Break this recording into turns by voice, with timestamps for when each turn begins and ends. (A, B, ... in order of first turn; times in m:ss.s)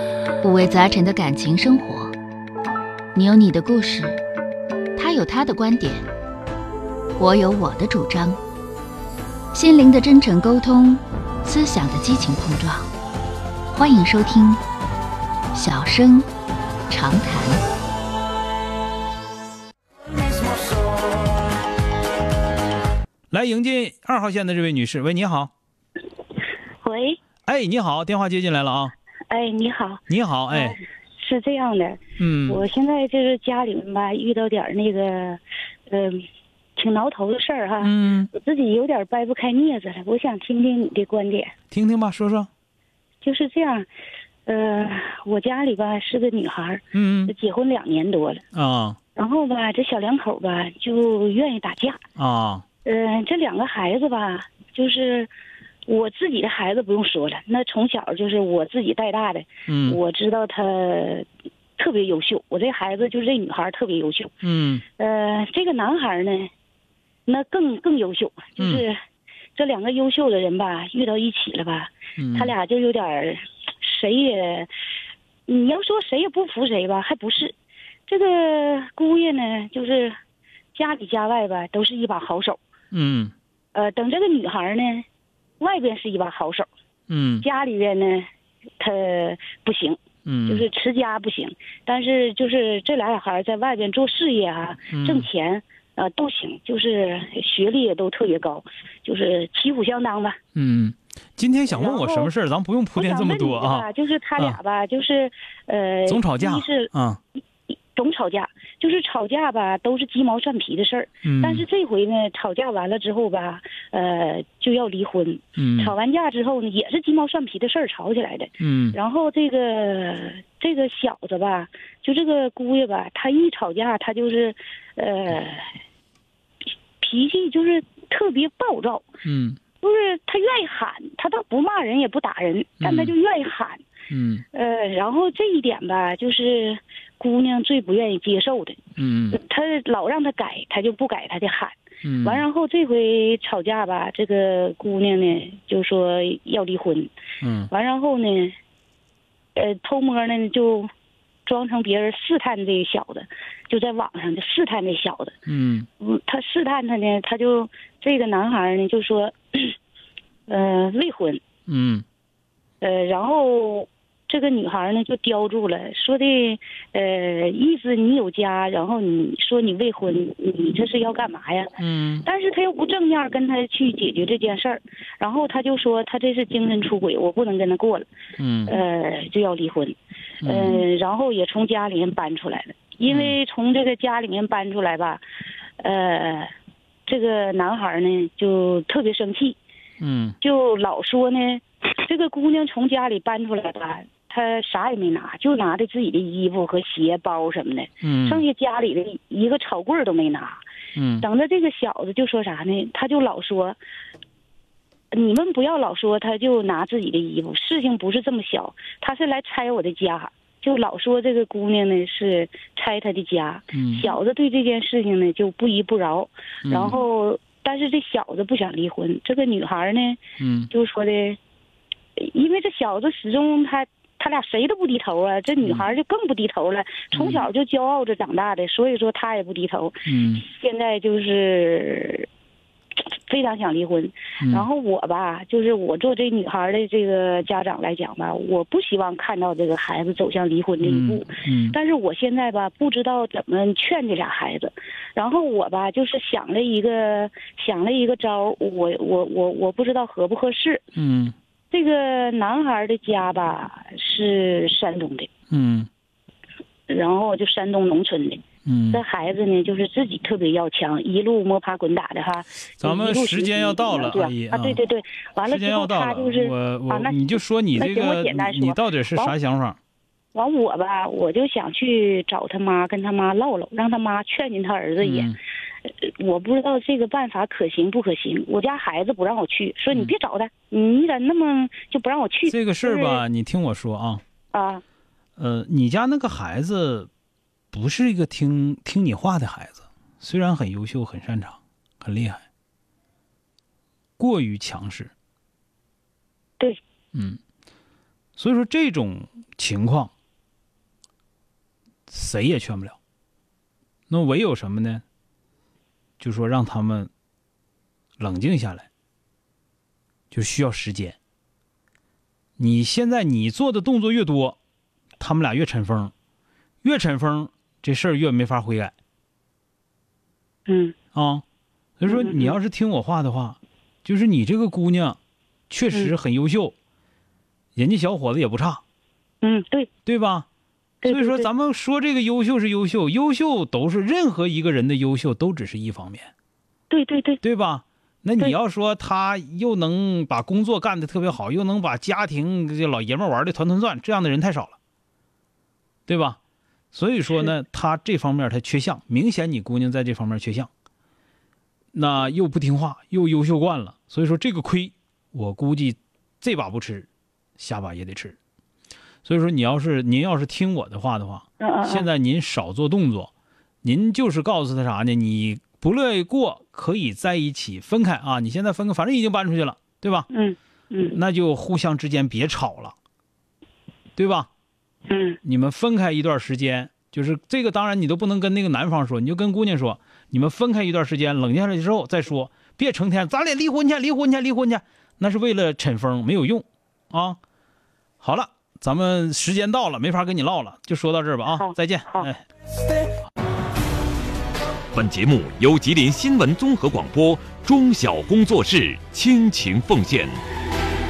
0:00.4-0:02.1 A
0:03.1-0:04.2 A
0:05.0-0:06.1 A
0:07.2-0:08.4 A
0:09.5-0:12.9 A
0:13.7-0:14.6 A
0:15.5-0:16.3 A
0:16.9-0:17.6 A
0:23.3-0:25.5 B
0:26.8-0:27.2 C
0:27.5-0:28.9 B
0:29.3-0:36.2 C
0:30.1-0:30.8 B
0:32.2-0:32.7 B
0:36.8-0:41.5 C
0:37.8-0:38.3 B
0:41.7-0:42.5 B
0:43.2-0:43.9 C
0:44.4-0:48.4 C
0:46.9-0:47.3 B
0:48.5-0:49.0 B
0:49.2-0:52.0 C
0:52.2-0:52.6 B
0:52.8-0:55.3 C
0:55.9-1:04.3 C
0:59.7-1:00.0 B
1:04.4-1:04.8 B
1:05.0-1:06.5 C
1:07.2-1:09.0 C
1:08.6-1:08.8 B
1:09.6-1:14.7 C
1:12.2-1:12.5 B
1:15.5-1:17.5 C
1:18.1-1:20.1 C
1:20.8-1:22.6 C
1:22.9-1:23.3 B
1:23.7-1:25.0 C
1:25.6-1:26.7 C
1:27.1-1:27.4 B
1:27.4-1:28.2 C
1:28.8-1:40.4 C
1:30.2-1:30.7 B
1:34.9-1:35.3 B
1:40.6-1:44.6 B
1:41.7-1:42.3 C
1:43.0-1:46.9 C
1:46.1-1:47.2 B
1:47.9-2:05.7 C
1:51.2-1:51.7 B
1:55.6-1:55.9 B
1:58.6-1:59.0 B
2:07.0-2:09.1 C
2:09.2-2:09.6 B
2:09.8-2:13.8 C
2:12.8-2:13.1 B
2:14.1-2:14.4 B
2:14.5-2:27.1 C
2:19.0-2:19.4 B
2:22.0-2:22.4 B
2:27.4-2:27.7 B
2:27.7-2:28.6 C
2:29.6-2:30.9 C
2:31.5-2:35.4 C
2:35.5-2:35.9 B
2:36.0-2:39.8 C
2:40.5-2:41.4 C
2:41.7-2:42.0 B
2:42.8-2:58.1 C
2:51.8-2:52.3 B
2:58.4-2:58.8 B
2:58.7-3:05.2 C
3:00.4-3:00.8 B
3:03.0-3:03.4 B
3:05.8-3:06.5 C
3:07.1-3:09.6 C
3:10.0-3:10.4 B
3:10.4-3:20.6 C
3:18.0-3:18.4 B
3:21.0-3:21.2 B
3:21.2-3:23.8 C
3:25.1-3:41.4 C
3:33.7-3:34.0 B
3:36.6-3:37.0 B
3:40.4-3:40.7 B
3:42.2-3:52.3 C
3:47.1-3:47.5 B
3:50.1-3:50.4 B
3:53.3-4:10.8 C
3:54.4-3:54.7 B
4:00.8-4:01.8 B
4:11.0-4:11.3 B
4:11.7-4:15.3 C
4:15.5-4:15.9 B
4:16.9-4:29.3 C
4:18.6-4:19.0 B
4:22.8-4:24.8 B
4:25.4-4:29.8 B
4:30.3-4:43.2 C
4:35.0-4:35.4 B
4:42.4-4:44.2 B
4:44.5-4:44.8 C
4:45.4-4:47.1 B
4:47.7-4:52.4 B
4:54.2-4:55.1 B
4:57.1-4:57.4 B
4:58.4-5:00.1 B
5:02.1-5:03.0 B
5:04.1-5:05.0 B
5:06.2-5:07.1 B
5:08.2-5:08.9 B
5:10.3-5:11.2 B
5:12.6-5:14.6 B
5:15.2-5:16.1 B
5:16.8-5:18.9 B
5:20.7-5:21.0 C
5:21.1-5:21.4 B
5:22.0-5:25.2 B
5:22.1-5:22.6 C
5:25.7-5:26.8 B
5:27.8-5:28.8 B
5:29.4-5:29.9 C
5:30.1-5:30.4 B
5:31.0-5:31.5 C
5:31.0-5:36.3 B
5:36.9-5:37.4 C
5:37.4-5:44.8 B
5:46.1-5:46.4 B
5:46.9-5:50.7 B
5:51.9-5:58.4 B
5:59.2-6:03.3 B
6:01.6-6:02.1 C
6:03.8-6:10.3 B
6:10.3-6:11.2 C
6:11.1-6:12.9 B
6:14.2-6:14.5 B
6:15.1-6:15.4 C
6:15.4-6:27.4 B
6:28.2-6:32.4 B
6:31.5-6:32.3 C
6:34.9-6:40.4 D